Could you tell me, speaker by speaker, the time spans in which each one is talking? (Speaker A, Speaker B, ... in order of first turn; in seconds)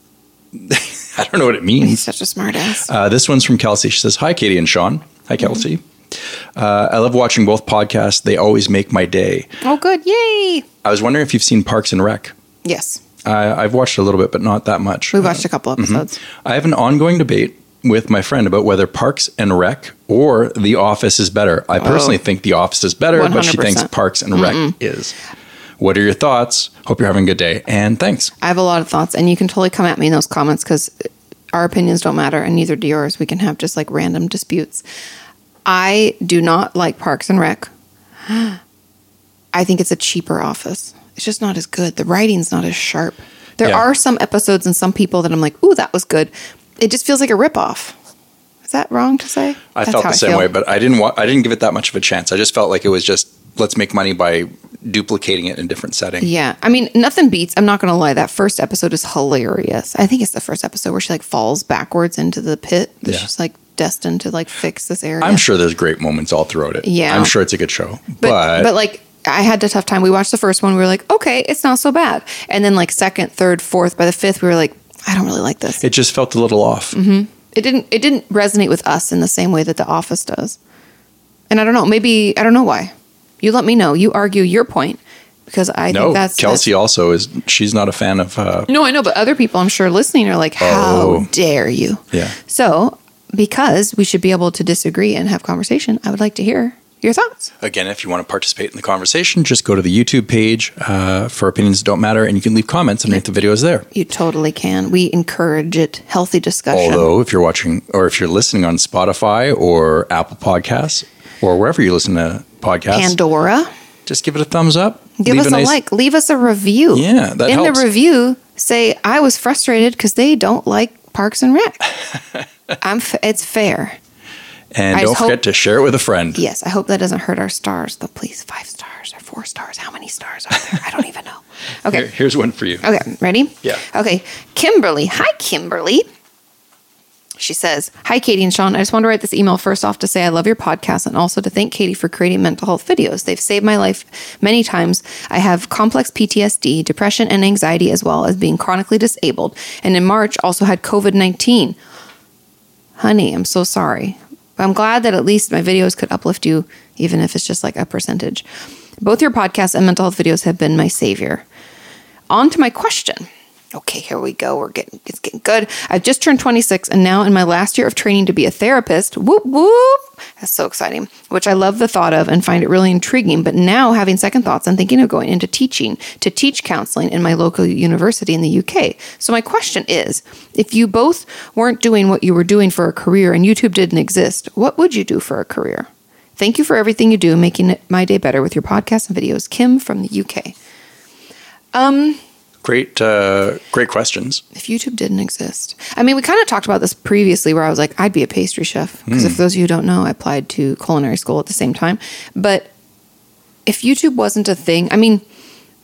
Speaker A: 0.5-2.1, 2.8-5.8, 6.5-9.5, 10.8-12.3, 13.2-25.1, 25.8-28.3, 49.7-56.3, 65.2-68.7, 75.8-77.0, 85.9-88.7, 90.6-91.3, 97.6-103.9, 106.7-113.2, 114.0-115.7, 116.9-117.8, 124.7-126.4, 131.9-132.9, 192.6-194.4, 199.1-199.4
Speaker B: 1.8-2.9, 9.6-10.7, 12.6-13.0, 15.1-16.2, 21.8-22.2, 23.1-24.7, 28.4-34.8, 35.6-37.7, 38.2-38.6, 39.5-48.0, 48.6-50.5, 56.2-65.4, 66.8-67.3, 68.2-75.8, 76.9-80.6, 81.5-86.7, 88.7-97.5, 103.9-107.1, 112.9-113.7, 115.2-121.9, 122.8-124.0, 124.9-125.4, 126.3-132.1, 132.8-136.1, 137.4-151.8, 153.0-158.4, 159.0-161.4, 162.3-190.5, 191.7-192.2, 194.5-202.7, 203.7-205.2